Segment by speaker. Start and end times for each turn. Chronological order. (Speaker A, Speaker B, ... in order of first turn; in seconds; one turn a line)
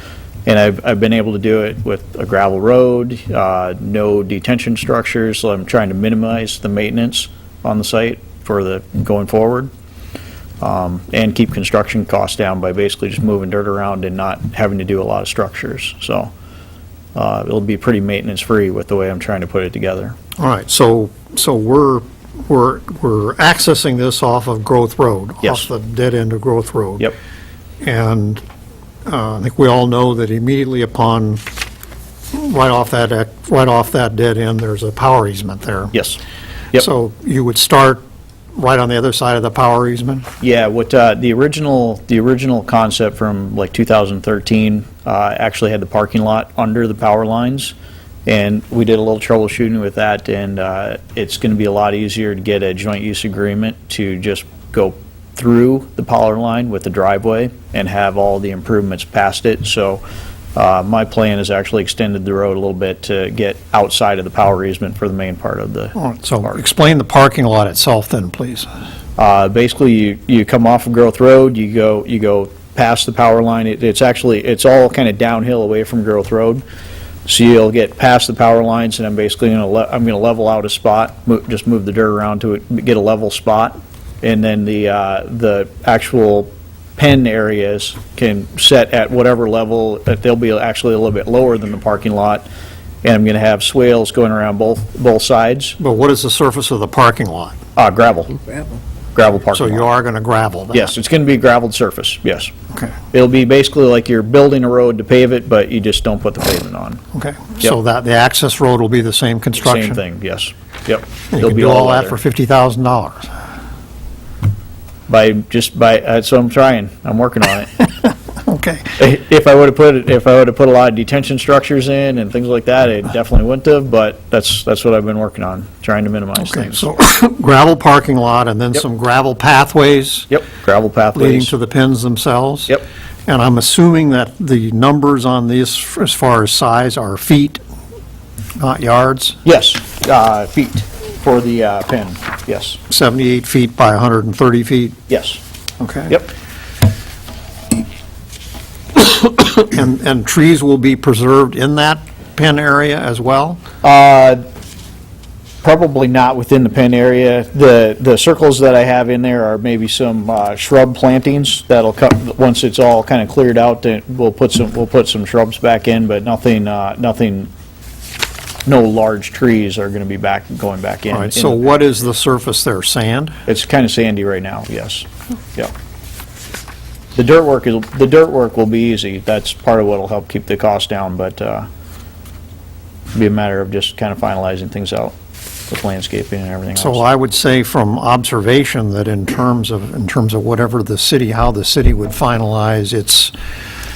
Speaker A: 0.5-9.7
Speaker A: 10.6-16.3
Speaker A: 17.1-20.1
Speaker B: 20.4-27.1
Speaker A: 25.4-25.7
Speaker B: 27.8-28.4
Speaker B: 29.1-31.4
Speaker B: 32.3-35.9
Speaker A: 35.9-36.2
Speaker B: 36.7-38.0
Speaker B: 38.5-40.3
Speaker A: 40.4-47.7
Speaker A: 48.2-60.0
Speaker A: 60.5-66.6
Speaker B: 66.0-68.7
Speaker A: 69.2-76.6
Speaker A: 77.2-92.5
Speaker A: 93.0-95.8
Speaker B: 95.8-97.6
Speaker A: 97.8-98.6
Speaker A: 99.1-99.9
Speaker B: 99.5-100.9
Speaker A: 100.7-102.5
Speaker A: 103.1-107.0
Speaker B: 107.1-110.0
Speaker A: 109.6-112.2
Speaker B: 111.3-113.3
Speaker A: 115.1-117.7
Speaker B: 118.4-118.9
Speaker A: 119.0-126.9
Speaker B: 126.4-130.3
Speaker A: 130.3-131.5
Speaker B: 131.1-137.6
Speaker B: 138.6-139.4
Speaker A: 139.4-142.8
Speaker B: 142.9-145.0
Speaker A: 145.1-145.4
Speaker B: 145.8-146.2
Speaker B: 148.9-153.6
Speaker A: 153.8-154.4
Speaker A: 155.6-167.5
Speaker A: 168.6-171.6
Speaker B: 171.1-173.3
Speaker A: 173.4-175.7
Speaker A: 177.1-181.7
Speaker A: 183.1-185.1
Speaker A: 185.7-187.0
Speaker B: 186.8-193.3